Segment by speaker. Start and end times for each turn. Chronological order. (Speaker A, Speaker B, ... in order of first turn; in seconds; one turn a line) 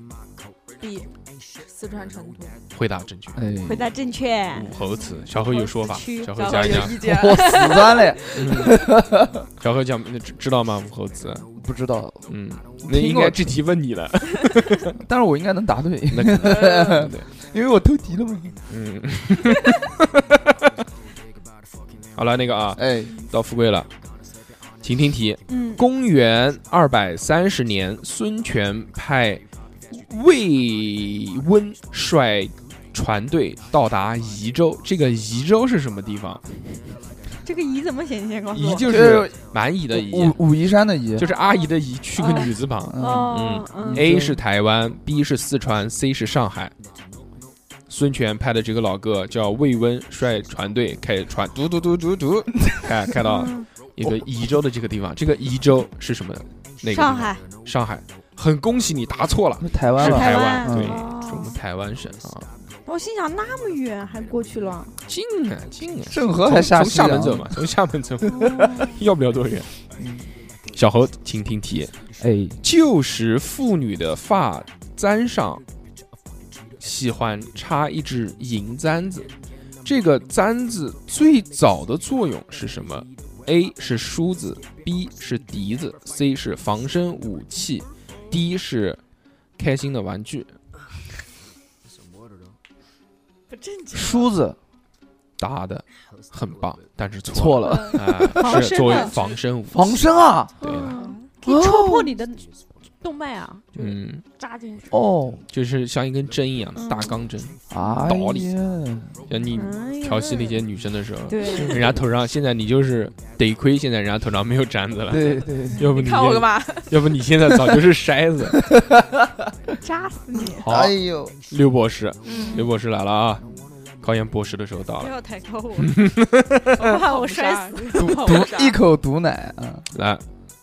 Speaker A: 0.8-1.1
Speaker A: 1.6-2.6
Speaker B: 2.7-3.5
Speaker C: 3.3-3.9
Speaker D: 3.6-6.9
Speaker B: 4.5-7.0
Speaker A: 6.3-8.3
Speaker C: 6.9-9.4
Speaker B: 8.3-8.8
Speaker B: 9.6-11.4
Speaker C: 11.6-12.3
Speaker B: 12.3-14.9
Speaker C: 12.8-13.6
Speaker C: 14.9-18.6
Speaker B: 16.1-17.3
Speaker B: 18.7-20.7
Speaker B: 22.1-23.9
Speaker C: 22.8-23.1
Speaker B: 24.8-36.4
Speaker D: 25.5-25.8
Speaker D: 37.4-38.9
Speaker B: 38.5-40.4
Speaker C: 38.8-39.3
Speaker C: 39.9-41.3
Speaker B: 41.2-46.7
Speaker D: 42.2-44.0
Speaker C: 42.9-44.4
Speaker B: 47.9-62.5
Speaker D: 53.2-53.7
Speaker D: 56.9-57.4
Speaker C: 59.6-61.1
Speaker D: 60.0-61.6
Speaker D: 62.8-64.9
Speaker B: 65.1-69.7
Speaker C: 66.1-67.6
Speaker D: 68.2-69.0
Speaker C: 70.0-70.3
Speaker B: 70.7-71.9
Speaker C: 72.2-72.6
Speaker B: 72.6-75.6
Speaker B: 76.8-79.3
Speaker B: 79.8-89.0
Speaker B: 89.6-90.5
Speaker D: 93.6-94.2
Speaker C: 93.9-94.6
Speaker B: 95.4-100.0
Speaker C: 97.3-98.7
Speaker D: 98.3-99.2
Speaker C: 99.7-100.6
Speaker D: 100.6-102.5
Speaker B: 100.6-101.0
Speaker E: 100.8-101.2
Speaker C: 101.4-102.1
Speaker D: 103.0-103.9
Speaker B: 103.7-104.2
Speaker D: 104.4-104.8
Speaker C: 104.9-105.4
Speaker B: 105.5-108.5
Speaker D: 106.8-107.2
Speaker C: 107.7-109.2
Speaker D: 107.8-108.1
Speaker B: 109.3-118.7
Speaker D: 109.5-110.6
Speaker D: 111.3-111.8
Speaker C: 111.5-112.0
Speaker C: 115.1-115.8
Speaker A: 115.8-117.0
Speaker C: 118.5-119.5
Speaker D: 119.8-120.6
Speaker C: 120.5-121.4
Speaker B: 120.6-120.9
Speaker B: 121.5-123.5
Speaker E: 122.2-122.7
Speaker B: 124.0-125.1
Speaker E: 125.0-126.0
Speaker B: 125.8-126.9
Speaker E: 126.8-128.4
Speaker A: 126.8-128.8
Speaker C: 127.9-129.9
Speaker B: 129.9-130.2